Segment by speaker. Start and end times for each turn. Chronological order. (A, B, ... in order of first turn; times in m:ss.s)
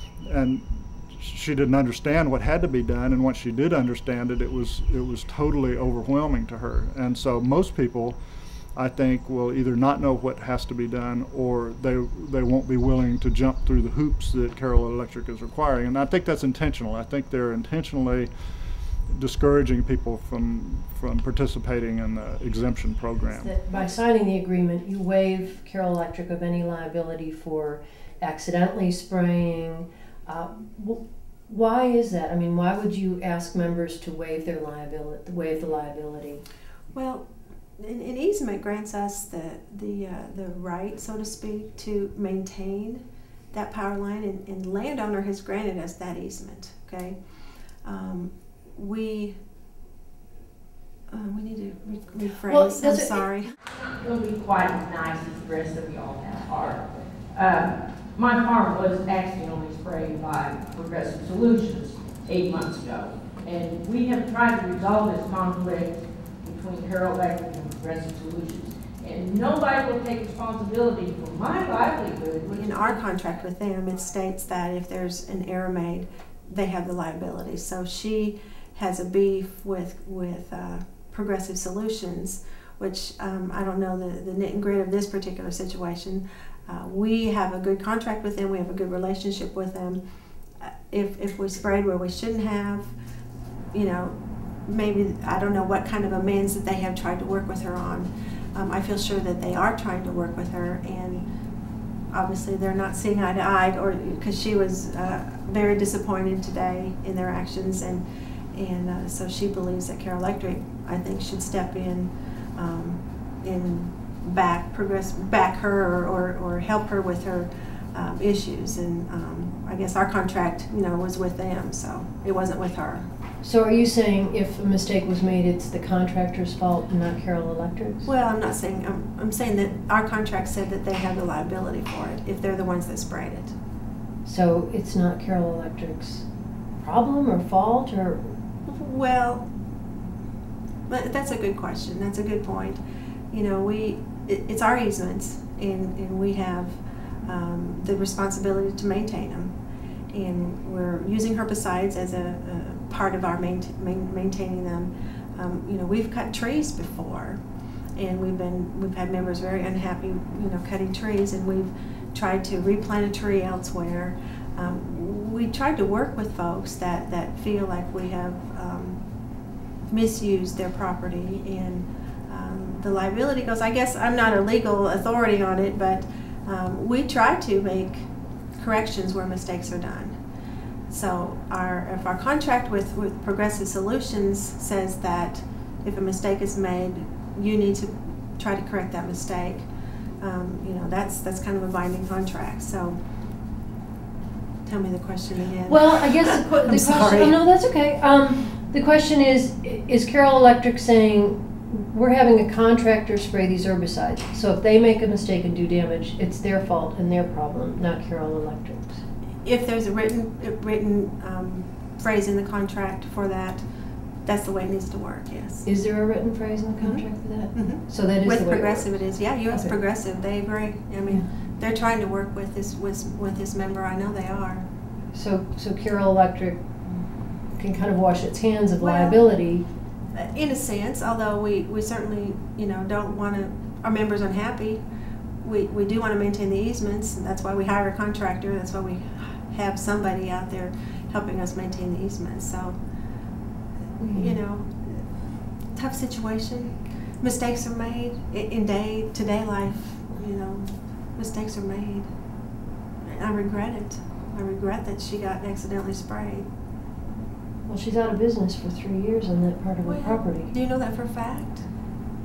0:00.2-0:08.2 A
0:08.8-0:18.3 A
0:19.1-0:23.6 A
0:23.3-0:36.4 B
0:36.9-0:37.3 C
0:37.8-0:47.2 C
0:47.8-0:49.4 C
0:51.1-0:53.5 C
0:52.5-0:53.2 B
0:53.8-1:13.1 D
1:12.5-1:30.0 C
1:30.6-1:32.9 C
1:33.7-1:41.2 C
1:42.1-2:03.1 C
2:03.4-2:08.1 B
2:08.0-2:13.6 C
2:14.2-2:16.2 B
2:16.8-2:18.3 B
2:18.7-2:19.5 C
2:20.9-2:29.6 C
2:30.1-2:37.4 C
2:38.0-2:49.0 C
2:49.9-3:00.2 C
3:00.9-3:09.7 C
3:10.2-3:13.0 C
3:14.6-3:17.4 C
3:15.7-3:29.0 B
3:29.4-3:33.6 C
3:34.2-3:35.7 C
3:35.7-3:38.8 B
3:36.8-3:44.7 C
3:45.1-3:46.7 B
3:47.5-3:49.7 B
3:48.8-3:49.3 C
3:50.1-3:54.8 C
3:55.4-4:02.8 C
4:04.0-4:05.0 C
4:05.7-4:12.1 C
4:13.0-4:16.5 C
4:17.7-4:20.5 B
4:19.8-4:21.7 C